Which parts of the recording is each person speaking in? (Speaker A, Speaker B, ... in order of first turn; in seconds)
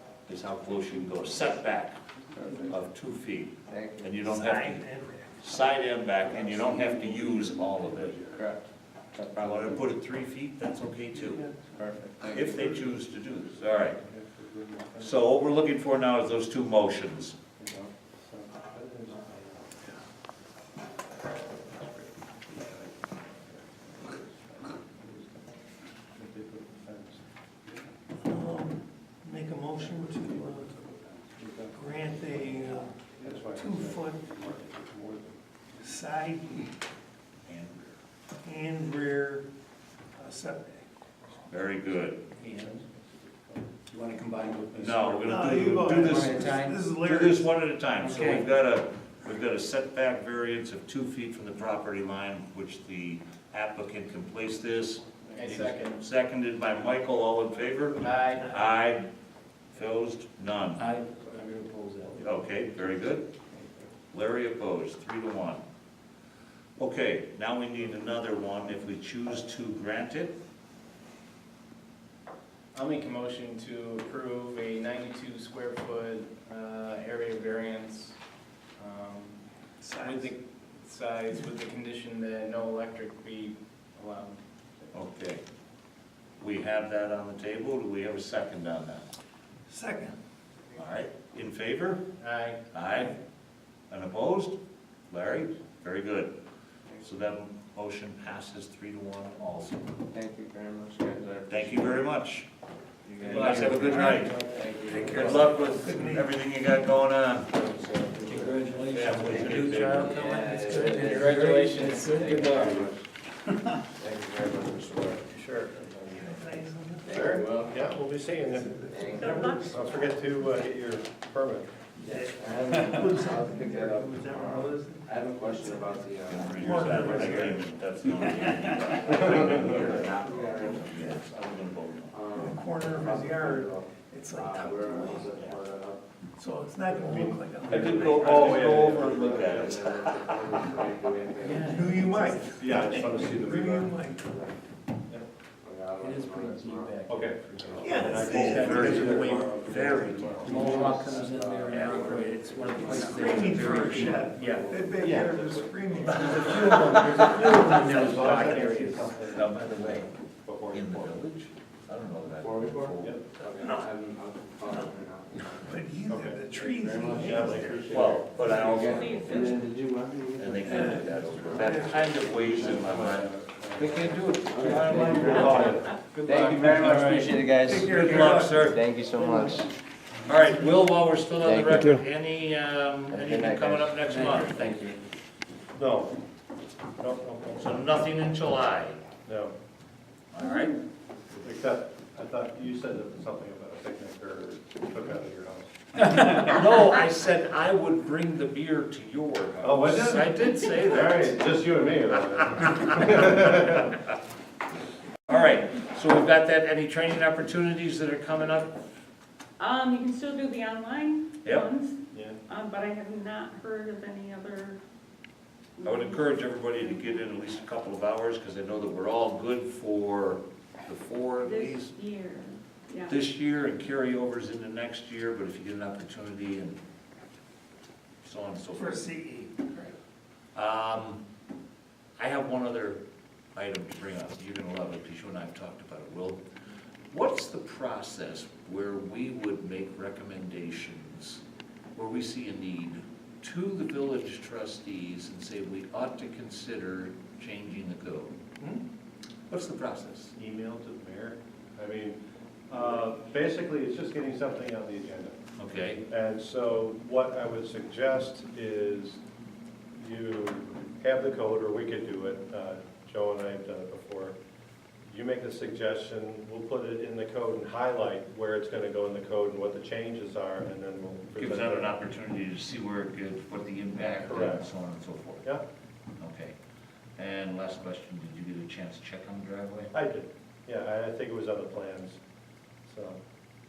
Speaker A: 0.3-2.0, 2.6-4.8, 5.4-8.2, 9.3-11.4, 12.3-14.0, 15.0-17.4, 37.5-38.0, 41.5-42.2, 44.8-59.1, 59.7-60.9, 62.2-63.3, 64.1-65.6, 66.8-70.3, 84.9-85.4, 86.4-89.0, 90.7-92.0, 92.7-93.2, 93.9-94.6, 95.1-96.3, 97.0-99.9, 101.5-102.5, 103.2-107.6, 108.9-110.2, 126.2-132.2, 135.3-135.6, 137.7-140.6, 148.2-150.7, 153.0-154.2, 156.0-157.2, 159.0-160.1, 160.7-163.2, 167.5-169.6, 170.3-175.8, 177.8-178.9, 180.2-184.9, 187.5-189.0, 190.3-190.8, 196.2-201.4, 202.6-203.1, 205.3-208.8, 215.8-221.9, 223.1-226.8, 228.2-229.0, 230.5-231.2, 232.2-233.0, 233.5-236.4, 237.1-241.4, 241.9-248.3, 249.5-250.3, 255.6-256.0, 271.4-275.4, 276.2-276.6, 277.2-279.9
Speaker B: 2.4-2.7, 3.7-4.1, 8.3-9.8, 11.8-12.6, 100.1-102.0, 103.0-105.7, 107.5-111.4, 112.0-113.0, 114.0-115.3, 117.0-117.8, 118.9-119.5, 122.0-127.5, 128.8-131.0, 132.1-136.0, 138.6-142.2, 145.6-147.0, 147.6-148.8, 150.4-154.9, 162.4-165.8, 166.6-173.2, 173.8-179.7, 181.4-181.9, 183.1-185.0
Speaker C: 4.2-5.6, 6.4-8.4, 11.1-11.8, 12.3-12.9, 28.2-31.0, 31.7-34.4, 35.8-36.7, 38.4-39.5, 40.2-40.8, 45.2-47.5, 79.8-80.3, 89.7-90.2, 103.8-106.3, 116.1-117.2, 118.5-119.8, 122.0-127.6, 130.8-131.2, 132.3-135.4, 136.4-138.6, 141.6-144.5, 147.8-150.6, 153.0-158.8, 163.6-163.8, 165.6-168.0, 170.6-172.8, 177.5-179.7, 228.7-229.9
Speaker D: 14.0-15.2, 17.6-19.8, 21.7-25.4, 26.1-27.2, 31.3-35.4, 42.5-43.6, 115.5-115.8, 117.0-121.7, 136.9-139.8, 142.6-144.0, 147.1-149.9, 155.0-161.2, 166.1-166.6, 167.2-168.2, 172.5-174.2, 175.0-175.9, 185.8-186.2, 187.0-187.8, 189.2-189.5, 191.4-195.7, 199.6-204.0, 250.3-255.4, 256.0-259.2, 259.9-264.4, 265.1-271.9, 274.2-274.6, 279.9-282.2, 282.9-283.2
Speaker E: 42.4-42.8, 44.1-45.3, 55.3-56.0, 58.0-58.5, 72.7-78.2, 78.8-79.4, 80.0-84.4, 92.2-92.6, 103.3-104.6, 110.7-112.5
Speaker F: 46.0-46.8, 48.0-48.5, 60.8-62.2, 103.3-104.2, 108.1-112.9, 141.4-142.3, 146.0-154.8, 156.1-159.1, 174.2-177.4
Speaker G: 119.1-120.2, 168.6-169.6, 209.6-211.9, 212.5-214.8, 215.8-217.2, 221.4-223.1